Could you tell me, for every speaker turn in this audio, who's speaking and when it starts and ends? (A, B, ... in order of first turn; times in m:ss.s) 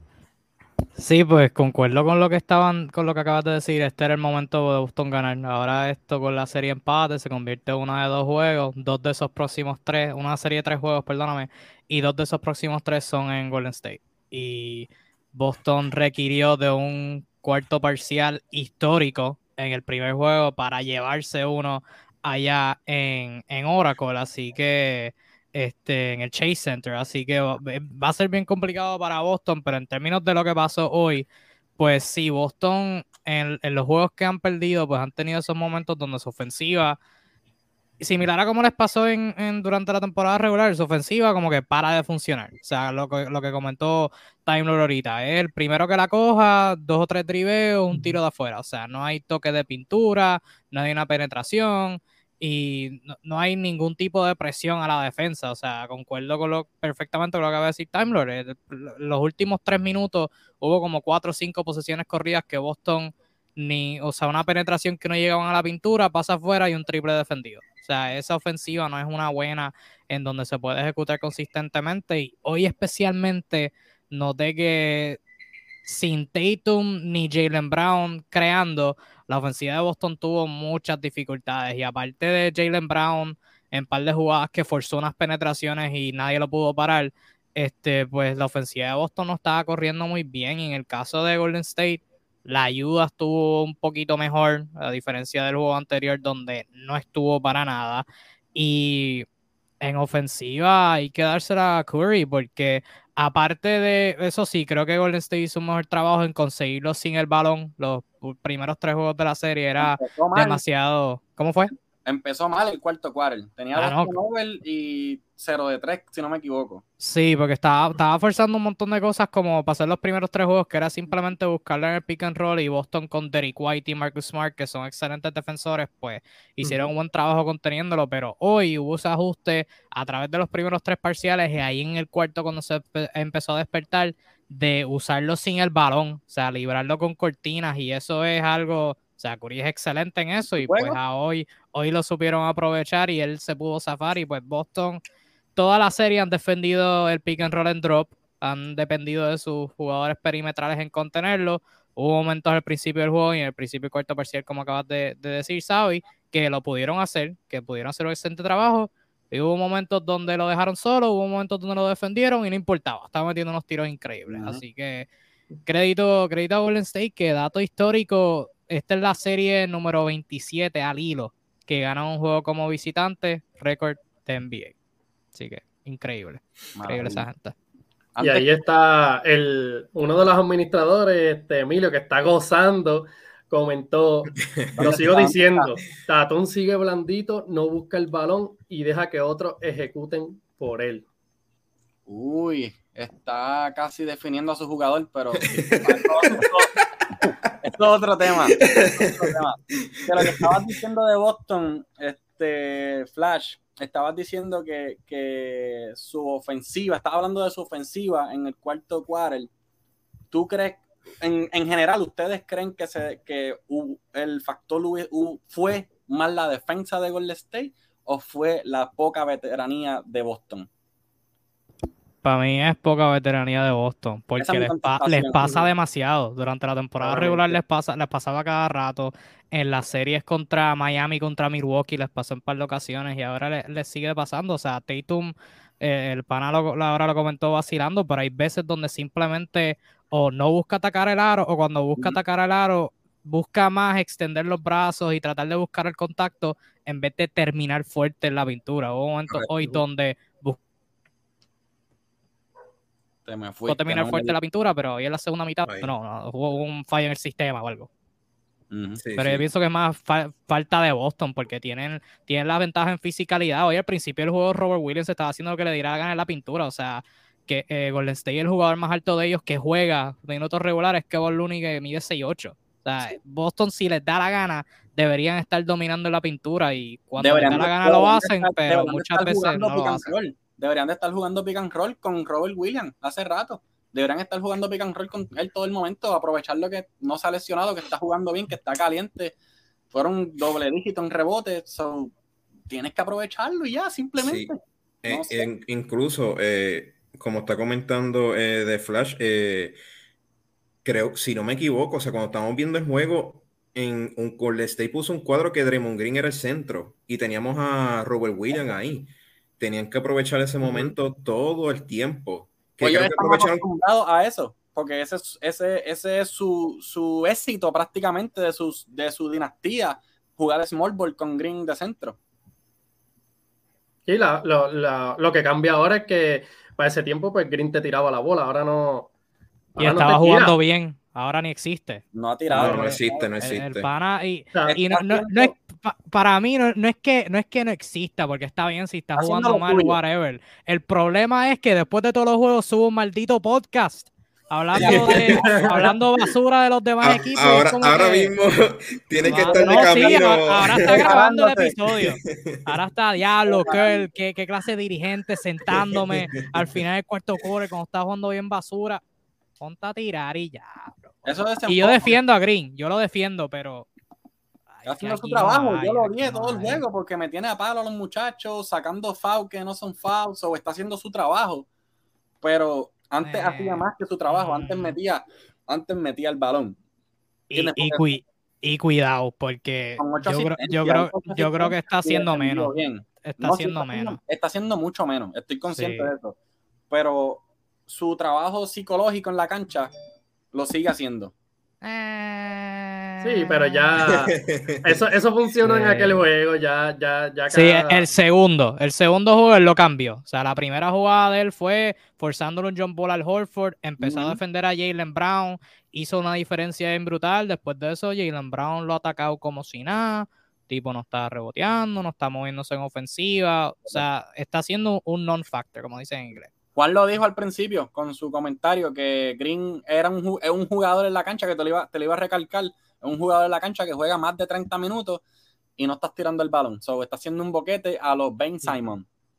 0:01.0-0:31.3 A
0:31.8-0:37.0 A
0:38.0-1:15.2 A
1:15.9-1:39.3 A
1:39.8-1:51.7 A
1:49.8-1:50.6 B
1:52.0-1:56.8 B
1:53.8-1:54.2 A
1:57.0-2:25.0 A
2:06.6-2:06.9 C
2:20.6-2:21.0 B
2:25.6-2:45.1 A
2:44.3-2:44.6 B
2:45.7-2:54.8 A
2:55.3-2:57.5 A
2:56.8-2:57.3 B
2:58.2-2:58.5 B
2:58.2-3:11.1 C
3:04.8-3:05.7 B
3:12.1-3:16.7 B
3:15.5-3:16.5 D
3:17.2-3:29.5 B
3:18.6-3:20.7 D
3:30.3-3:40.7 B
3:42.2-4:10.6 A
3:44.4-3:45.6 B
3:45.4-3:45.7 C
3:47.0-3:47.6 C
4:13.3-4:14.4 B
4:13.7-4:17.9 A
4:15.7-4:15.9 D
4:18.7-4:19.0 B
4:19.0-4:19.4 D
4:19.2-4:40.1 A
4:37.2-4:49.4 B
4:49.9-4:52.2 B
4:52.7-4:55.5 B
4:54.2-4:54.5 D
4:55.0-4:59.8 D
5:00.8-5:13.6 D
5:10.6-5:10.9 B
5:12.8-5:22.2 B
5:24.1-5:29.1 C
5:29.8-5:30.6 C
5:29.8-5:48.4 A
5:32.1-5:33.3 B
5:32.5-5:33.9 D
5:34.7-5:35.5 B
5:39.2-5:40.0 B
5:44.8-5:45.9 B
5:44.8-5:45.3 D
5:45.4-5:45.8 C
5:47.0-5:51.2 D
5:49.2-5:59.0 A
5:49.3-5:51.8 B
5:52.0-5:52.8 D
5:53.6-5:53.9 B
5:55.7-5:56.7 D
5:59.6-6:03.9 A
6:01.3-6:02.2 B
6:04.8-6:06.8 A
6:04.9-6:11.7 B
6:12.4-6:16.8 B
6:13.2-6:15.0 A
6:17.5-6:24.2 A
6:17.6-6:18.0 B
6:20.0-6:26.4 B
6:25.7-6:26.1 A
6:26.9-6:29.9 B
6:30.5-6:31.3 B
6:31.8-6:34.0 A
6:33.2-6:38.1 C
6:34.0-6:35.0 D
6:35.6-6:36.3 A
6:37.5-6:56.5 A
6:44.0-6:44.4 D
6:56.8-7:05.2 B
7:05.8-7:09.0 B